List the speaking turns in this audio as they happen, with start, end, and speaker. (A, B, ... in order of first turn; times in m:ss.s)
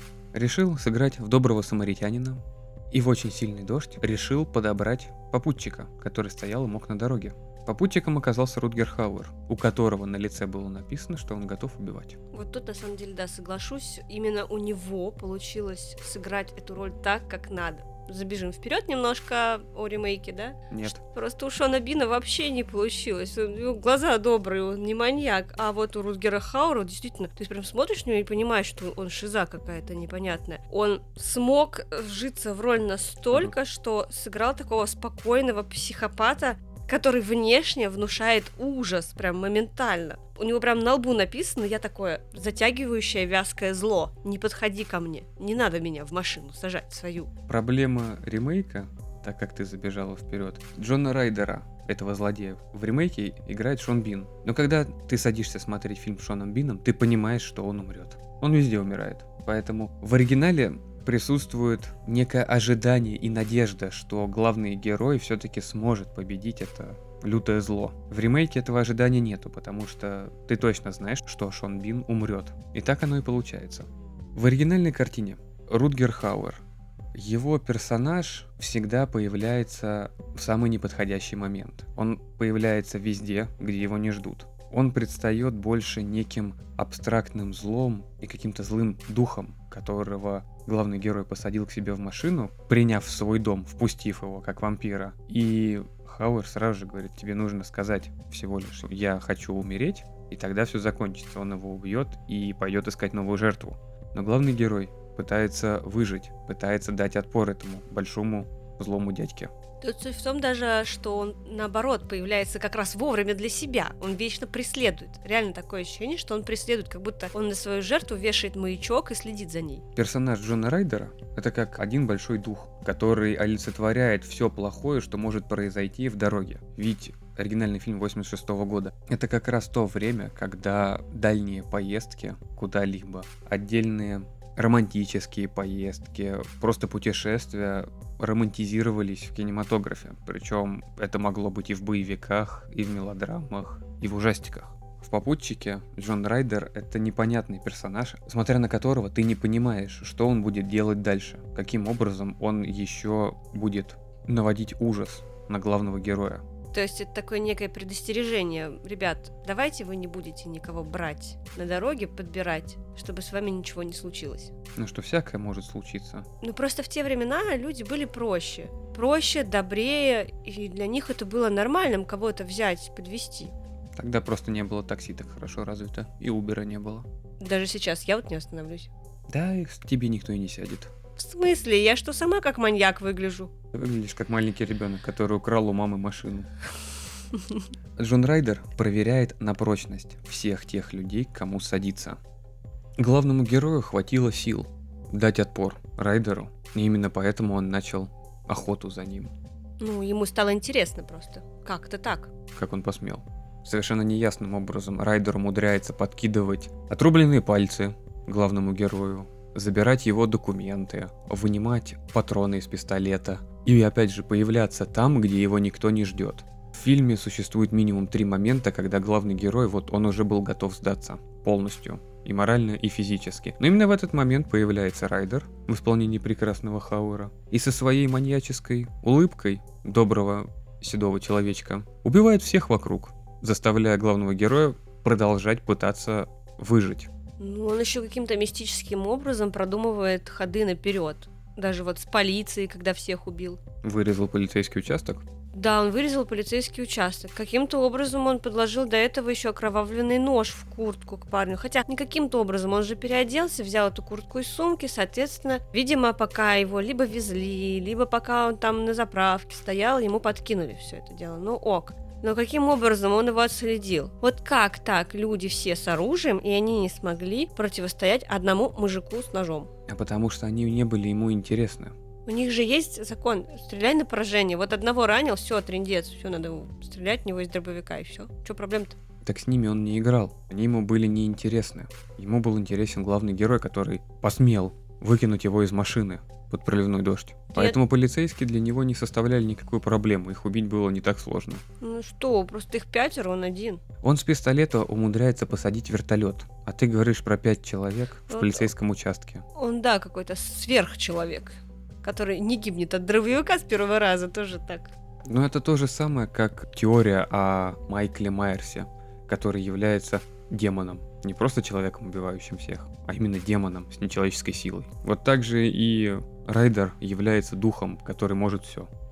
0:00.3-0:12.2 A
0:12.3-0:47.3 B
0:20.7-0:21.0 A
0:47.5-1:49.5 A
1:49.8-1:59.8 B
2:00.0-2:36.4 A
2:36.7-2:44.5 B
2:44.8-2:46.3 A
2:46.4-2:53.5 B
2:54.0-2:57.1 A
2:57.4-2:58.9 B
2:59.3-3:00.9 A
3:01.2-3:03.5 B
3:03.7-3:06.5 A
3:07.3-3:07.6 B
3:08.0-3:12.2 A
3:13.0-3:19.3 A
3:19.8-3:22.3 B
3:22.5-3:57.1 A
3:57.4-4:03.6 B
4:03.8-4:05.2 A
4:05.5-4:29.7 B
4:29.9-4:32.0 A
4:32.3-4:39.0 B
4:39.2-4:51.6 A
4:51.8-4:53.8 B
4:54.0-4:59.4 A
4:58.3-4:58.7 B
4:59.6-5:05.0 B
5:05.3-5:18.9 A